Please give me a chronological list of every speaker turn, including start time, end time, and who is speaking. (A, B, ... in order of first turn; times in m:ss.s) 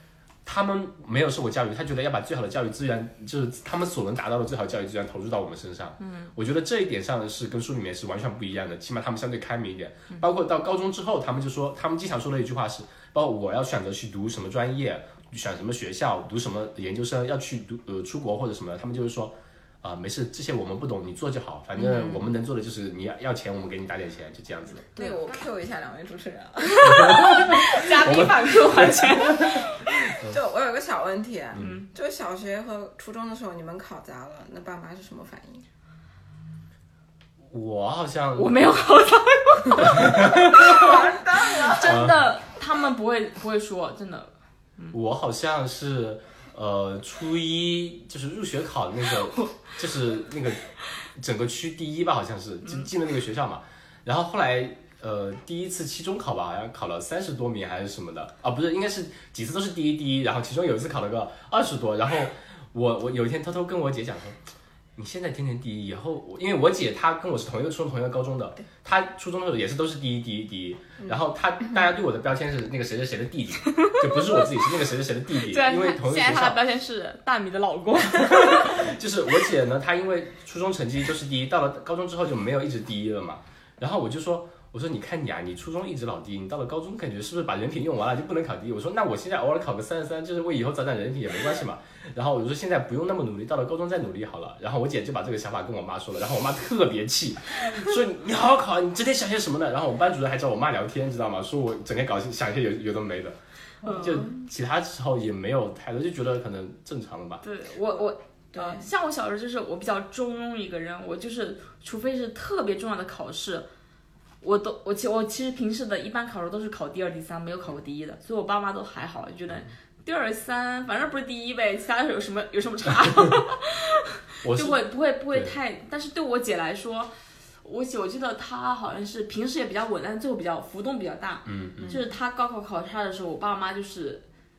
0:00.4-0:24.9 A
0:06.0-0:06.3 B
0:21.8-0:22.2 B
0:24.9-0:25.3 B
0:24.9-0:27.6 C
0:26.6-0:29.9 B
0:26.8-0:30.4 A
0:30.2-0:35.7 C
0:31.5-0:31.8 A
0:31.6-0:31.9 B
0:37.5-0:38.6 A
0:38.4-0:44.9 B
0:39.8-0:40.9 A
0:40.4-0:42.0 C
0:41.8-0:42.2 A
0:44.9-0:50.6 A
0:51.2-1:04.4 A
1:05.0-1:16.6 A
1:13.8-1:14.6 B
1:15.4-1:18.9 B
1:18.1-1:43.4 A
1:43.8-1:44.3 C
1:43.8-1:44.3 B
1:43.9-1:47.4 A
1:47.4-1:53.7 B
1:48.5-1:48.9 C
1:54.4-2:14.2 B
2:04.4-2:04.8 A
2:05.3-2:05.6 A
2:11.4-2:12.0 A
2:11.8-2:12.1 C